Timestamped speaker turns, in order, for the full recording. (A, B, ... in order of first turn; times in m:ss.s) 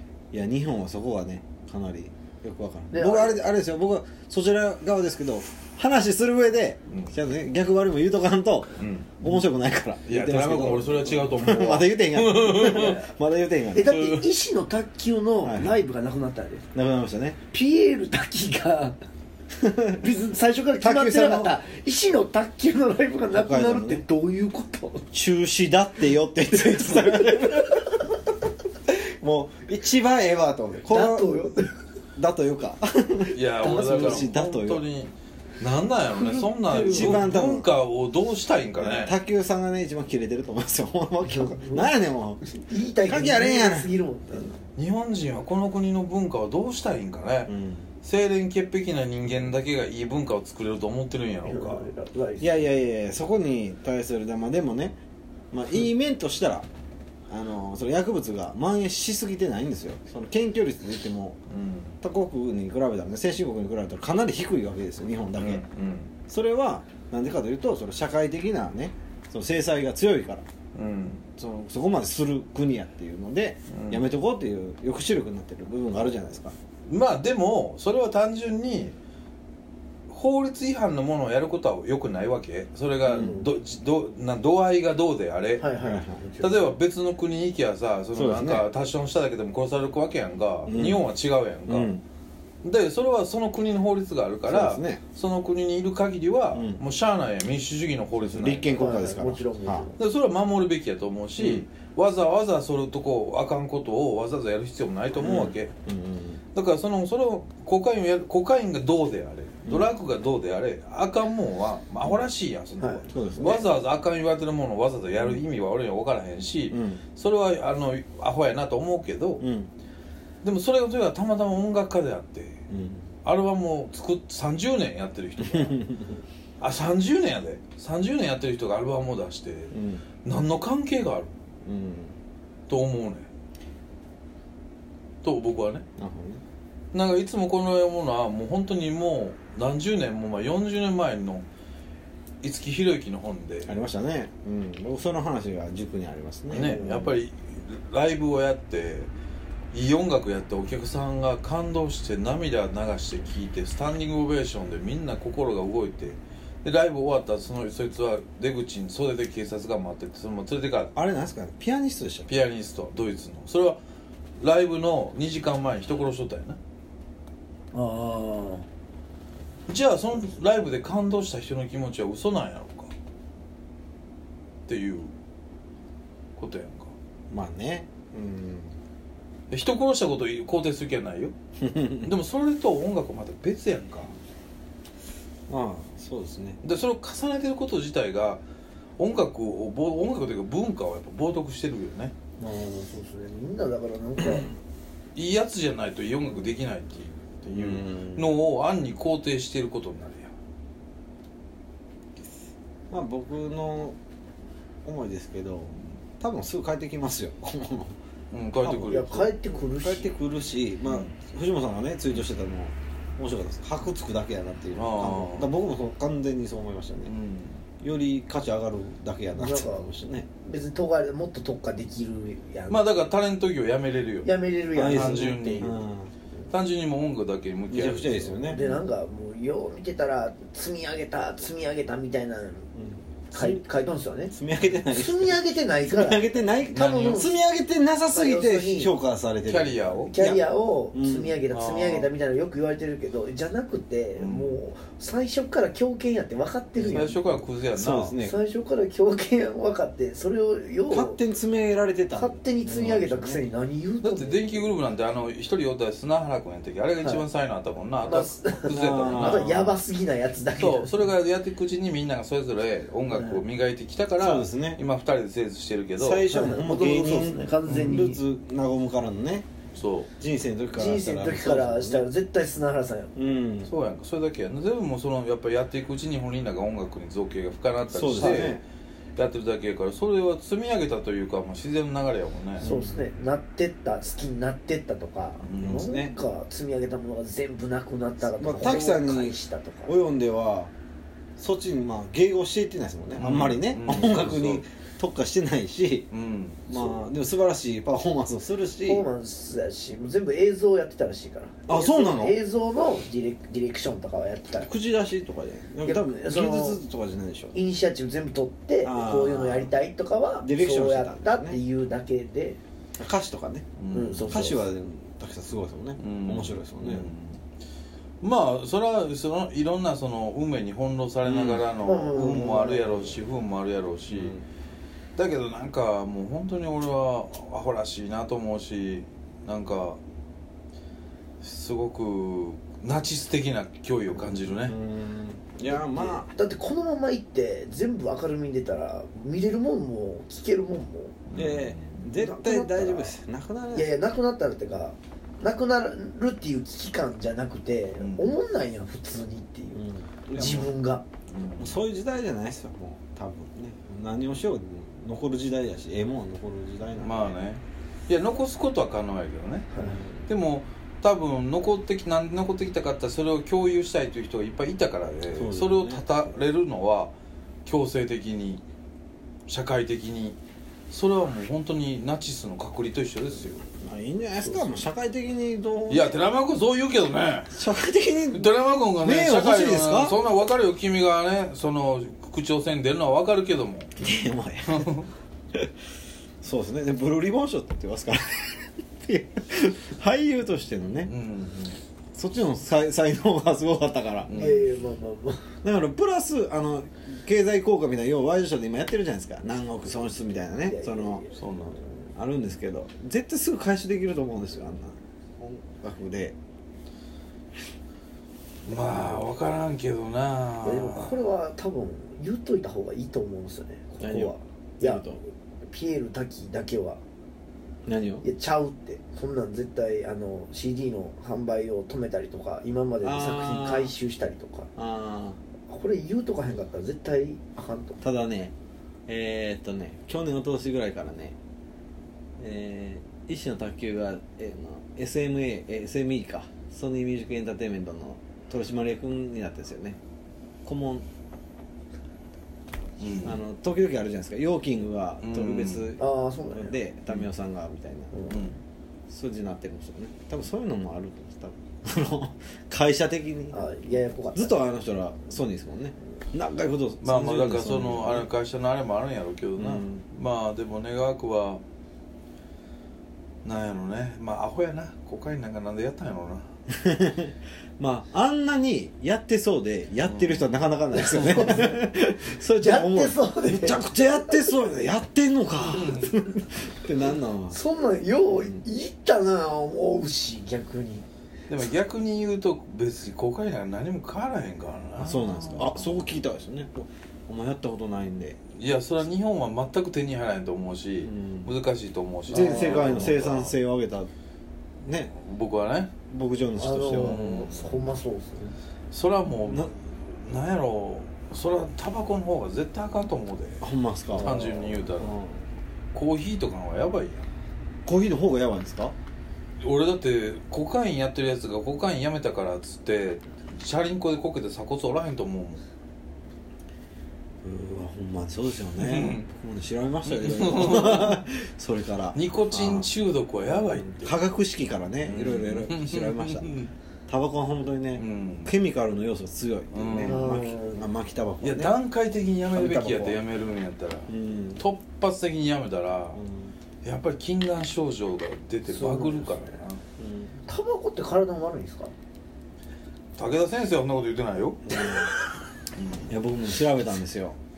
0:00.3-0:14.1 A
0:02.9-0:03.5 B
0:06.9-0:07.2 C
0:08.8-0:09.3 C
0:10.1-0:13.0 C
0:12.6-0:13.0 B
0:13.7-0:16.6 B
0:13.9-0:14.2 C
0:15.4-0:15.8 A
0:16.7-0:17.4 A
0:17.5-0:19.0 B
0:19.6-0:20.0 A
0:20.0-0:25.1 B
0:20.8-0:21.6 A
0:23.3-0:24.0 A
0:25.1-0:28.0 A
0:28.9-0:31.4 A
0:30.9-0:31.7 B
0:32.2-0:34.8 A
0:33.3-0:39.1 C
0:33.6-0:34.3 B
0:36.2-0:37.2 B
0:36.7-0:37.7 A
0:38.8-0:42.5 A
0:41.3-0:41.9 B
0:42.5-0:44.6 B
0:43.0-0:43.9 A
0:44.8-0:47.5 C
0:47.5-0:47.9 A
0:48.0-0:51.9 C
0:51.4-0:52.6 B
0:52.4-0:55.0 A
0:55.5-0:56.7 A
0:57.3-1:01.4 A
1:01.5-1:01.9 C
1:02.0-1:05.6 A
1:05.4-1:06.1 C
1:06.3-1:10.4 A
1:10.7-1:11.2 C
1:11.4-1:16.6 A
1:13.7-1:14.0 C
1:16.8-1:18.9 C
1:20.1-1:25.7 C
1:23.0-1:23.4 A
1:23.1-1:23.5 B
1:25.6-1:26.7 B
1:25.8-1:26.2 A
1:26.4-1:32.0 C
1:28.1-1:28.6 A
1:30.6-1:31.1 A
1:31.7-1:32.0 A
1:32.6-1:38.9 C
1:34.4-1:35.0 A
1:36.5-1:36.8 A
1:38.2-1:39.9 A
1:38.7-1:40.0 B
1:40.0-1:45.7 C
1:41.4-1:41.6 A
1:45.2-1:46.4 A
1:46.5-1:59.4 C
1:49.6-1:49.9 A
1:53.1-1:53.7 A
1:56.7-1:57.0 A
1:59.4-1:59.7 A
2:00.4-2:02.6 C
2:02.7-2:03.1 A
2:03.2-2:05.8 C
2:05.4-2:06.2 A
2:06.6-2:09.7 C
2:09.7-2:10.0 A
2:10.2-2:11.3 C
2:11.6-2:12.2 A
2:12.7-2:13.3 C
2:15.2-2:15.8 C
2:16.0-2:16.4 A
2:16.9-2:21.4 C
2:22.4-2:23.8 C
2:23.6-2:27.1 A
2:26.5-2:29.1 C
2:26.5-2:27.2 B
2:29.7-2:40.9 C
2:40.9-2:42.3 A
2:42.3-2:43.8 C
2:44.4-2:46.6 C
2:47.7-2:48.6 B
2:49.7-2:52.9 C
2:54.7-2:55.1 C
2:56.4-2:56.9 C
2:57.3-2:58.7 A
2:59.5-3:01.3 C
3:01.6-3:02.1 A
3:02.0-3:04.1 C
3:05.5-3:06.6 A
3:06.6-3:08.4 C
3:09.0-3:12.1 C
3:12.4-3:14.5 B
3:15.1-3:20.3 C
3:17.5-3:18.3 A
3:22.9-3:24.0 A
3:24.8-3:27.9 A
3:28.3-3:29.3 C
3:28.6-3:30.1 B
3:29.8-3:37.1 A
3:34.8-3:35.5 C
3:37.0-3:37.6 C
3:37.8-3:40.3 A
3:39.3-3:39.9 B
3:40.4-3:42.8 B
3:42.7-3:45.8 C
3:44.2-3:45.8 B
3:44.7-3:46.1 A
3:46.5-3:48.7 C
3:47.7-3:48.8 A
3:48.4-3:52.7 B
3:52.8-3:53.6 A
3:53.3-3:54.3 B
3:54.3-4:01.4 A
3:54.9-3:57.3 B
3:56.7-3:57.2 C
3:58.1-3:58.9 B
3:59.5-4:00.1 C
4:00.1-4:07.2 B
4:01.5-4:02.1 C
4:04.2-4:04.6 C
4:06.8-4:08.2 C
4:06.8-4:08.4 A
4:08.2-4:11.2 B
4:10.9-4:13.4 A
4:12.1-4:14.7 B
4:14.0-4:19.7 C
4:18.0-4:21.0 B
4:18.7-4:19.6 A
4:20.5-4:26.3 C
4:23.1-4:23.4 B
4:24.2-4:24.8 A
4:26.0-4:29.5 A
4:26.3-4:28.2 B
4:27.6-4:28.1 C
4:29.7-4:30.1 C
4:30.2-4:32.0 A
4:30.8-4:33.1 B
4:33.1-4:33.7 A
4:33.6-4:38.6 C
4:37.9-4:38.6 A
4:38.2-4:38.5 B
4:39.2-4:42.7 C
4:42.6-4:43.0 A
4:42.6-4:49.9 B
4:45.4-4:45.8 C
4:45.6-4:46.1 A
4:48.4-4:50.7 A
4:51.4-4:56.1 A
4:53.2-4:54.6 C
4:56.1-4:56.6 C
4:56.7-4:59.0 A
4:58.8-5:04.7 B
5:01.7-5:02.4 A
5:04.5-5:07.5 A
5:05.8-5:06.8 B
5:07.5-5:12.6 B
5:08.8-5:09.7 A
5:10.4-5:11.6 A
5:13.0-5:13.7 A
5:13.8-5:14.4 C
5:13.9-5:14.7 B
5:14.3-5:17.1 A
5:16.0-5:17.4 C
5:18.2-5:24.4 C
5:21.2-5:21.6 A
5:21.8-5:23.2 B
5:24.1-5:24.4 A
5:25.2-5:30.0 C
5:31.4-5:34.7 C
5:34.1-5:36.3 A
5:35.7-5:41.2 B
5:41.3-5:41.8 C
5:41.3-5:43.9 A
5:42.1-5:43.2 B
5:43.7-5:51.0 B
5:48.0-5:48.3 C
5:49.7-5:50.7 A
5:51.3-5:51.8 C
5:51.6-5:57.3 A
5:57.0-6:07.1 C
5:59.7-6:00.0 B
5:59.8-6:00.3 A
6:05.3-6:06.1 A
6:07.6-6:08.6 C
6:09.5-6:10.4 C
6:10.9-6:13.6 C
6:13.8-6:16.1 A
6:15.9-6:17.5 C
6:17.5-6:20.2 A
6:18.3-6:23.9 C
6:24.0-6:24.9 A
6:24.7-6:25.1 C
6:26.4-6:31.1 A
6:31.0-6:31.8 C
6:32.1-6:34.5 A
6:34.2-6:34.7 C
6:34.3-6:35.5 B
6:35.6-6:41.2 A
6:40.6-6:41.5 B
6:41.3-6:41.8 C
6:42.2-6:46.4 A
6:48.7-6:51.2 C
6:48.7-6:49.2 B
6:50.6-6:57.0 B
6:54.0-6:55.2 A
6:57.8-6:58.2 A
6:58.2-7:04.7 B
7:03.0-7:03.9 A
7:04.8-7:05.4 A
7:05.7-7:08.0 B
7:08.0-7:08.5 A
7:09.1-7:11.4 A
7:12.4-7:20.0 A
7:20.6-7:21.0 A
7:23.0-7:23.4 C
7:23.2-7:28.2 A
7:25.2-7:25.9 C
7:26.0-7:26.8 B
7:28.1-7:28.4 B
7:28.3-7:28.6 C
7:29.1-7:38.3 A
7:33.5-7:34.6 B
7:37.0-7:41.6 C
7:39.6-7:40.0 A
7:43.4-7:46.5 C
7:46.7-7:57.6 A
7:50.0-7:50.6 C
7:50.9-7:51.9 B
7:52.5-7:54.4 B
7:55.7-7:56.1 C
7:57.5-8:01.1 B
7:58.3-7:58.6 A
8:01.5-8:06.0 C
8:05.0-8:08.4 A
8:08.6-8:13.6 C
8:11.0-8:11.5 A
8:12.3-8:14.1 A
8:12.3-8:13.0 B
8:14.8-8:15.1 A
8:15.0-8:15.9 C
8:16.1-8:17.3 A
8:16.6-8:18.5 B
8:16.9-8:17.9 C
8:18.9-8:25.2 C
8:19.4-8:19.7 A
8:23.6-8:25.4 A
8:24.1-8:24.8 B
8:25.9-8:27.3 C
8:27.8-8:28.9 A
8:29.6-8:35.6 C
8:37.4-8:42.9 A
8:38.8-8:39.3 C
8:40.0-8:41.2 C
8:42.1-8:44.2 C
8:44.0-8:46.6 A
8:45.0-8:46.7 C
8:47.1-8:51.8 A
8:48.0-8:48.5 C
8:49.7-8:50.2 C
8:50.0-8:50.9 B
8:51.4-8:56.2 C
8:52.6-8:53.2 A
8:54.1-8:54.6 A
8:56.1-8:56.5 A
8:56.8-8:59.8 C
8:58.7-8:59.6 B
9:00.0-9:00.3 A
9:00.4-9:01.9 B
9:03.2-9:05.1 C
9:04.6-9:05.1 A
9:05.8-9:06.1 C
9:06.1-9:07.4 A